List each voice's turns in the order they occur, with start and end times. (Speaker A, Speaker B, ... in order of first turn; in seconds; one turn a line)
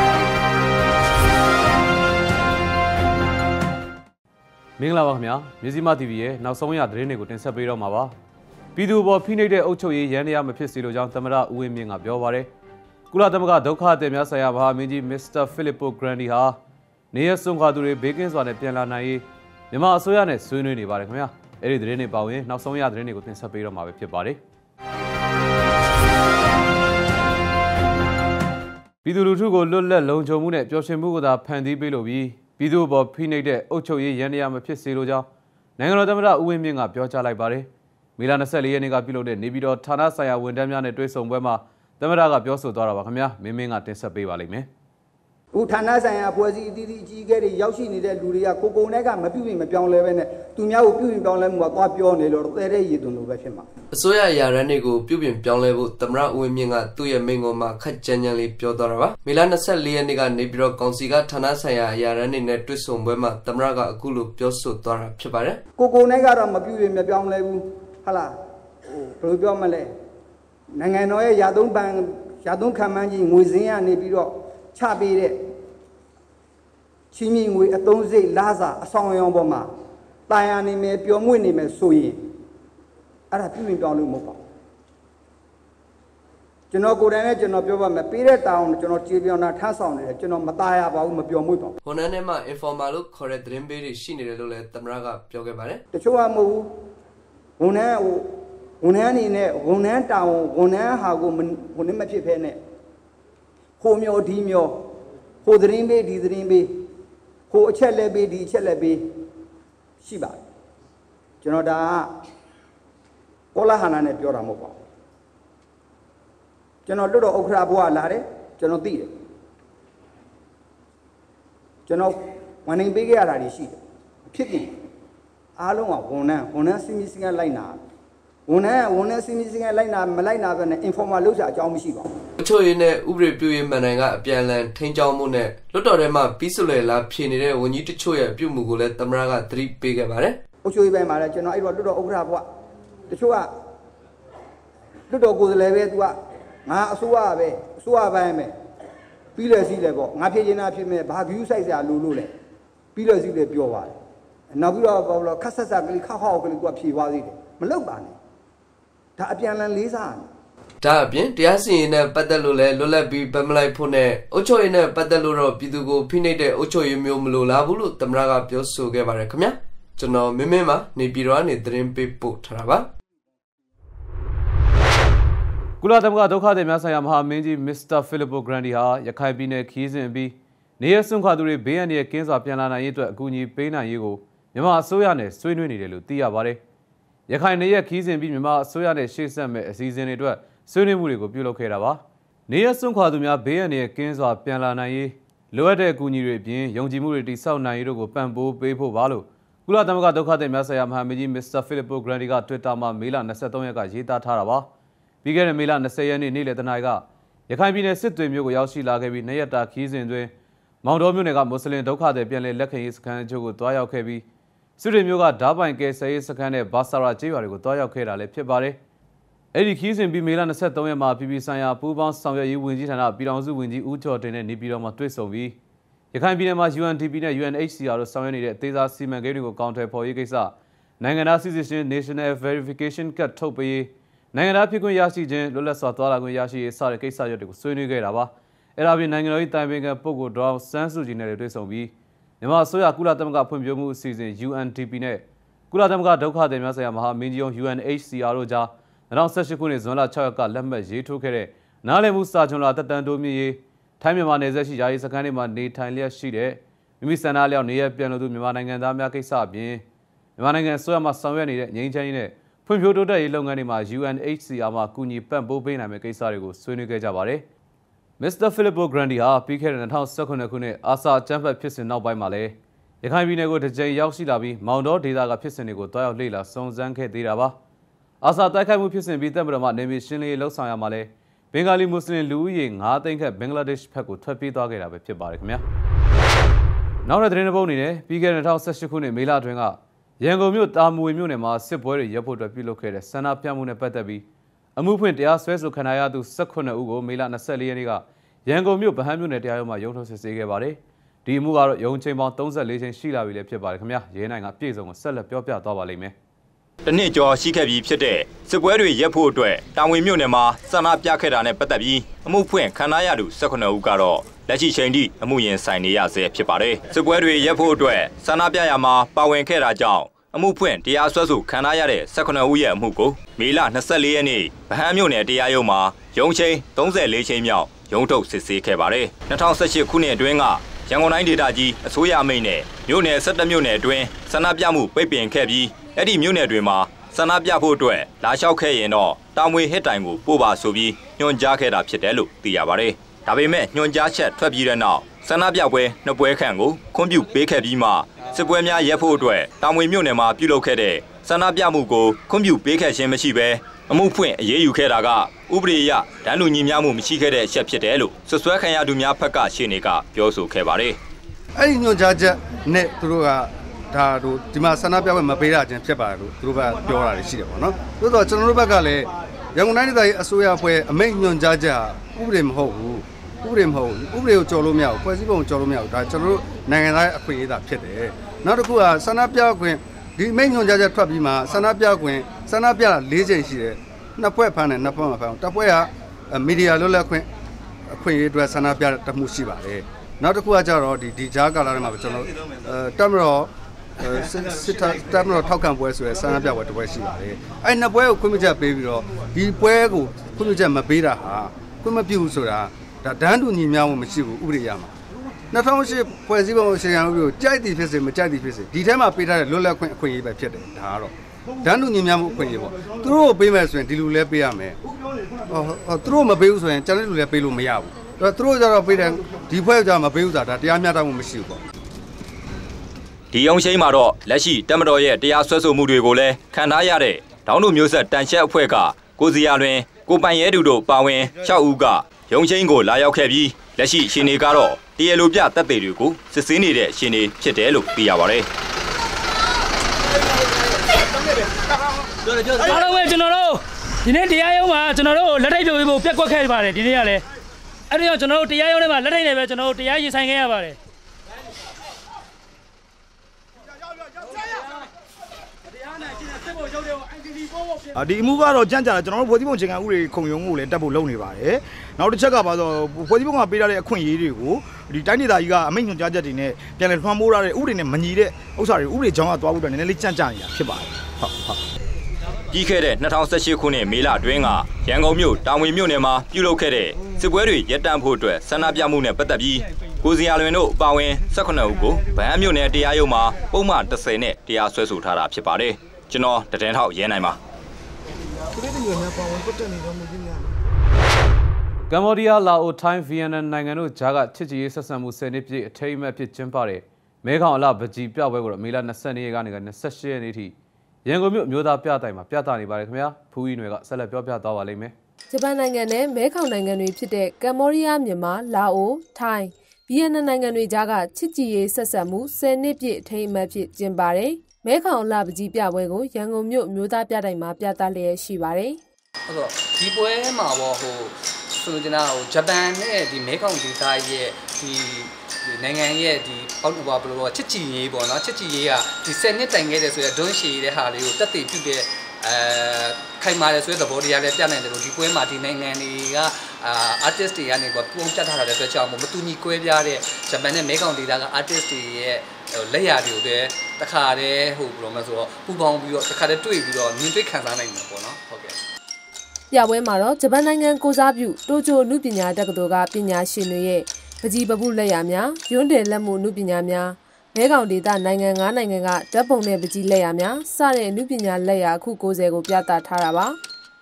Speaker A: 4.8-8.1
Speaker A: 8.8-12.5
Speaker A: 13.1-16.6
Speaker A: 17.1-24.4
Speaker A: 29.0-35.3
Speaker A: 35.8-37.7
Speaker A: 38.2-44.7
Speaker B: 45.5-53.6
Speaker C: 53.9-65.6
Speaker B: 65.8-68.3
Speaker B: 68.9-69.9
Speaker B: 70.7-75.4
Speaker B: 77.1-79.7
Speaker B: 80.3-82.2
Speaker B: 83.3-84.4
Speaker B: 86.7-91.8
Speaker C: 91.8-95.8
Speaker B: 95.9-96.7
Speaker B: 97.6-98.3
Speaker B: 98.8-102.6
Speaker B: 103.8-104.7
Speaker B: 105.4-106.7
Speaker B: 107.5-109.0
Speaker B: 110.0-110.4
Speaker B: 111.4-112.1
Speaker B: 113.5-114.8
Speaker B: 116.8-119.1
Speaker B: 121.9-122.1
Speaker B: 122.6-123.8
Speaker B: 124.3-124.7
Speaker B: 125.6-127.8
Speaker B: 128.5-132.1
Speaker C: 132.4-140.4
Speaker B: 140.6-142.4
Speaker B: 143.1-143.5
Speaker B: 145.1-148.5
Speaker B: 149.3-152.3
Speaker B: 152.9-154.0
Speaker B: 154.5-158.1
Speaker B: 159.2-160.3
Speaker C: 160.8-172.9
Speaker A: 175.8-186.6
Speaker A: 187.3-204.7
Speaker A: 205.2-210.3
Speaker A: 210.8-214.2
Speaker A: 214.8-218.8
Speaker A: 219.5-225.6
Speaker A: 226.1-259.8
Speaker A: 260.4-267.4
Speaker A: 268.2-277.6
Speaker A: 278.2-285.6
Speaker A: 287.0-294.2
Speaker A: 294.8-306.1
Speaker D: 306.9-361.0
Speaker E: 361.6-387.3
Speaker E: 387.9-393.5
Speaker E: 394.0-404.9
Speaker E: 405.5-411.1
Speaker E: 411.6-414.8
Speaker E: 415.5-421.6
Speaker D: 423.3-438.5
Speaker F: 442.6-447.2
Speaker F: 447.9-450.8
Speaker G: 457.9-471.6
Speaker D: 472.5-487.4
Speaker G: 488.6-490.4
Speaker A: 491.9-500.5
Speaker A: 501.1-504.9
Speaker H: 505.3-518.8
Speaker I: 519.3-548.6
Speaker H: 549.5-563.4